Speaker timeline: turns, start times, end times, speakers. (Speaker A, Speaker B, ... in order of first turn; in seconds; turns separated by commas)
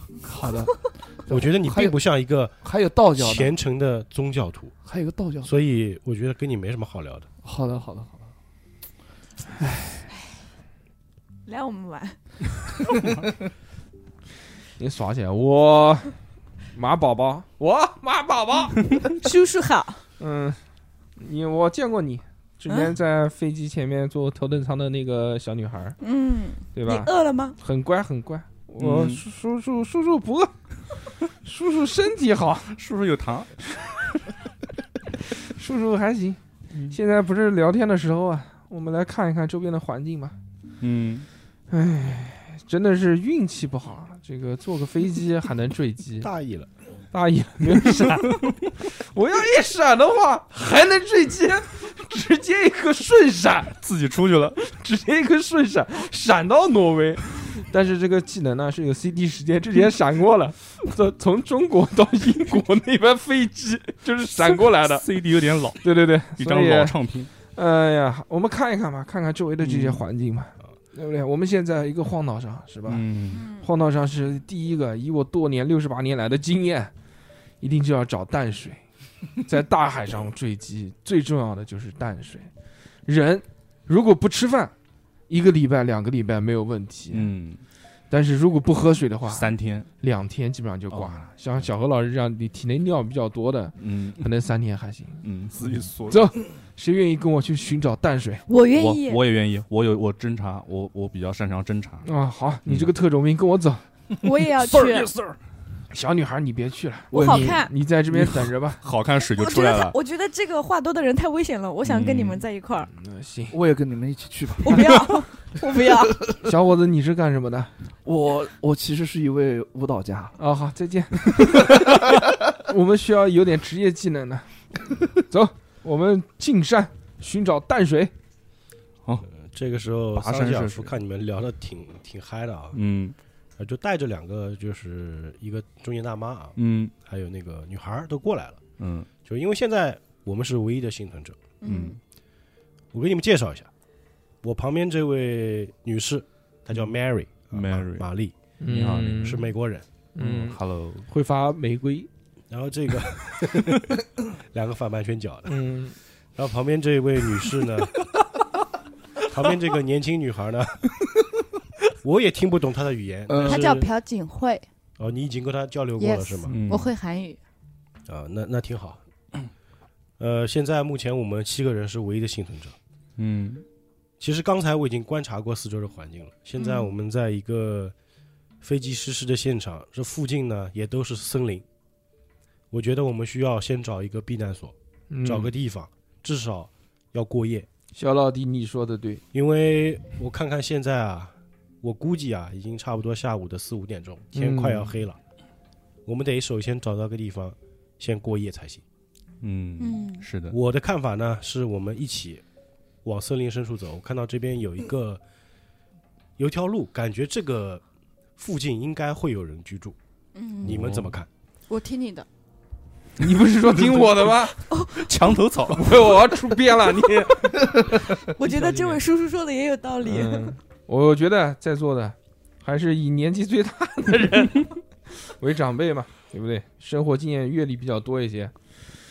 Speaker A: 0.2-1.9, Speaker B: 1.3-2.5, Speaker A: 2.6-3.5, Speaker B: 3.1-4.7, Speaker A: 4.8-5.5, Speaker B: 5.4-7.3, Speaker A: 7.4-8.2, Speaker C: 11.4-12.2, Speaker D: 14.8-16.1, Speaker D: 16.7-19.2, Speaker C: 19.2-20.0, Speaker D: 20.2-20.6, Speaker D: 21.2-26.0, Speaker C: 26.0-27.6, Speaker D: 26.7-30.5, Speaker E: 28.8-29.2, Speaker D: 31.3-32.8, Speaker E: 32.7-33.6, Speaker D: 35.4-36.4, Speaker D: 36.9-40.4, Speaker E: 40.8-41.3, Speaker D: 41.7-46.3, Speaker B: 46.2-46.7, Speaker D: 47.1-53.8, Speaker E: 53.8-54.6, Speaker D: 54.6-65.0, Speaker E: 64.8-67.3, Speaker D: 65.8-66.9, Speaker D: 67.5-73.0, Speaker E: 69.6-70.0, Speaker E: 72.9-73.5, Speaker C: 73.3-73.7, Speaker D: 73.6-76.9, Speaker D: 77.6-78.8, Speaker D: 79.4-82.5, Speaker D: 83.0-84.7, Speaker D: 85.3-87.3, Speaker E: 87.1-87.6, Speaker D: 88.1-89.5, Speaker E: 89.3-89.9, Speaker D: 90.0-95.2, Speaker E: 90.9-91.2, Speaker E: 93.8-94.2, Speaker E: 95.2-96.3, Speaker D: 96.1-98.4, Speaker C: 98.5-99.2, Speaker E: 98.7-102.1, Speaker D: 102.0-103.8, Speaker E: 102.7-102.9, Speaker C: 104.2-105.1, Speaker E: 104.6-105.4, Speaker D: 105.9-108.8, Speaker C: 107.1-107.7, Speaker A: 107.1-107.6, Speaker E: 108.1-110.0, Speaker C: 109.2-112.9, Speaker E: 111.8-112.4, Speaker D: 112.9-113.5, Speaker A: 113.5-115.1, Speaker C: 114.6-116.2, Speaker A: 115.8-116.4, Speaker D: 116.4-117.7, Speaker A: 118.0-120.3, Speaker D: 120.4-122.0, Speaker D: 122.6-124.5, Speaker D: 125.0-128.1, Speaker B: 129.3-132.8, Speaker E: 130.1-130.9, Speaker E: 132.7-133.2, Speaker B: 133.6-138.6, Speaker E: 136.6-136.9, Speaker E: 138.8-139.1, Speaker B: 139.2-141.4, Speaker C: 141.6-142.0, Speaker E: 141.6-142.0, Speaker B: 142.9-143.7, Speaker B: 144.4-148.3, Speaker E: 147.5-148.1, Speaker D: 148.6-149.5, Speaker E: 148.7-149.4, Speaker B: 149.2-149.8, Speaker D: 150.2-152.1, Speaker E: 150.2-151.1, Speaker B: 152.5-155.6, Speaker D: 155.5-155.9, Speaker B: 156.3-158.1, Speaker B: 159.2-161.0, Speaker B: 162.0-163.9, Speaker A: 163.3-163.6, Speaker C: 163.4-164.6, Speaker B: 165.0-166.6, Speaker C: 166.0-167.4, Speaker E: 166.5-166.9, Speaker B: 168.1-169.0, Speaker B: 170.2-172.8, Speaker E: 173.2-173.6, Speaker B: 174.2-177.9, Speaker C: 176.6-176.9, Speaker B: 178.6-181.6, Speaker B: 182.7-187.7, Speaker D: 185.1-185.5, Speaker D: 187.9-189.2, Speaker B: 189.3-195.2, Speaker D: 194.3-194.9, Speaker B: 196.1-198.8, Speaker E: 199.4-200.6, Speaker C: 199.8-200.2, Speaker B: 200.5-202.4, Speaker B: 203.0-205.2, Speaker B: 206.4-207.8, Speaker B: 208.4-209.9, Speaker C: 210.3-210.8, Speaker B: 210.6-211.3, Speaker E: 210.6-211.0, Speaker C: 211.7-212.2, Speaker D: 213.2-214.6, Speaker E: 213.7-216.3, Speaker C: 214.7-215.1, Speaker D: 215.8-217.8, Speaker C: 218.2-220.5, Speaker D: 218.4-219.0, Speaker D: 220.0-228.5